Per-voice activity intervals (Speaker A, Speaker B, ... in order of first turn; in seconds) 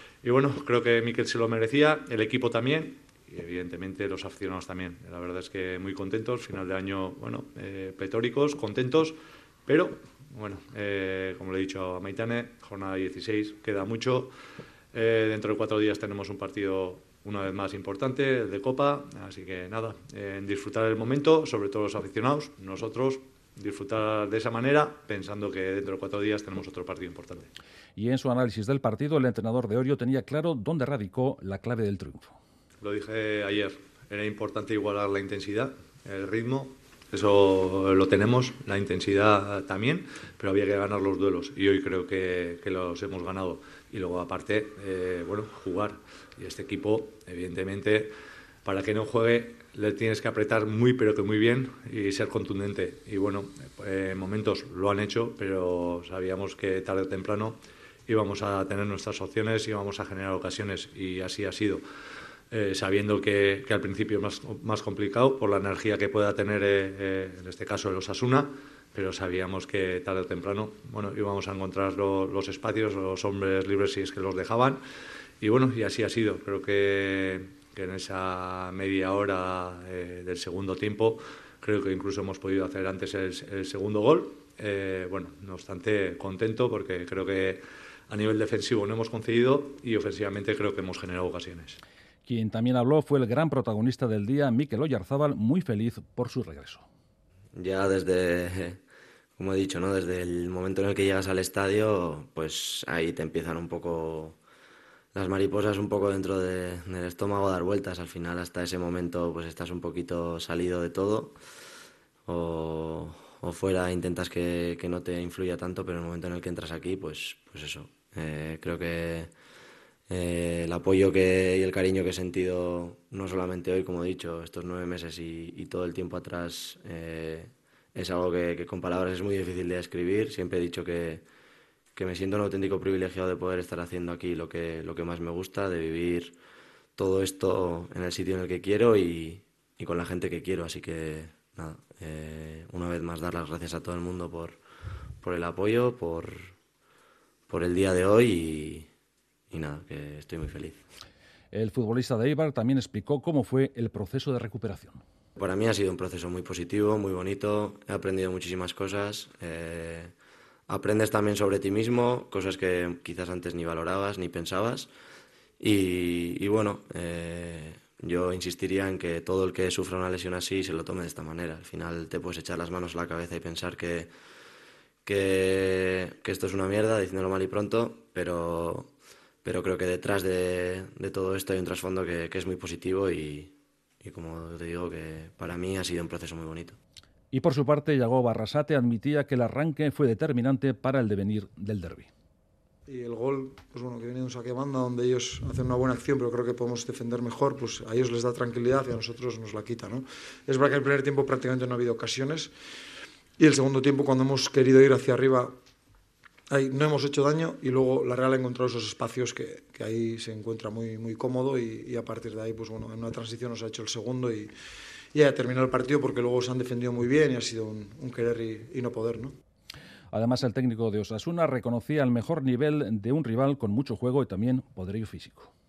Speaker A: 0.2-14.3, 14.9-27.5, 32.8-48.1, 48.6-61.8, 62.5-74.8, 75.4-91.8
Speaker B: 27.9-32.4, 92.2-96.8, 151.5-155.0, 187.3-192.1, 220.1-225.5
Speaker C: 97.5-98.8, 99.4-104.4, 105.1-111.3, 112.3-119.3, 120.1-131.2, 131.9-136.3, 136.9-144.6, 145.2-146.5, 147.5-148.9, 149.5-150.8, 155.3-160.1, 160.7-164.9, 165.6-174.1, 175.1-178.9, 179.4-186.8
Speaker D: 192.9-202.5, 203.4-205.5, 206.5-214.5, 215.1-219.3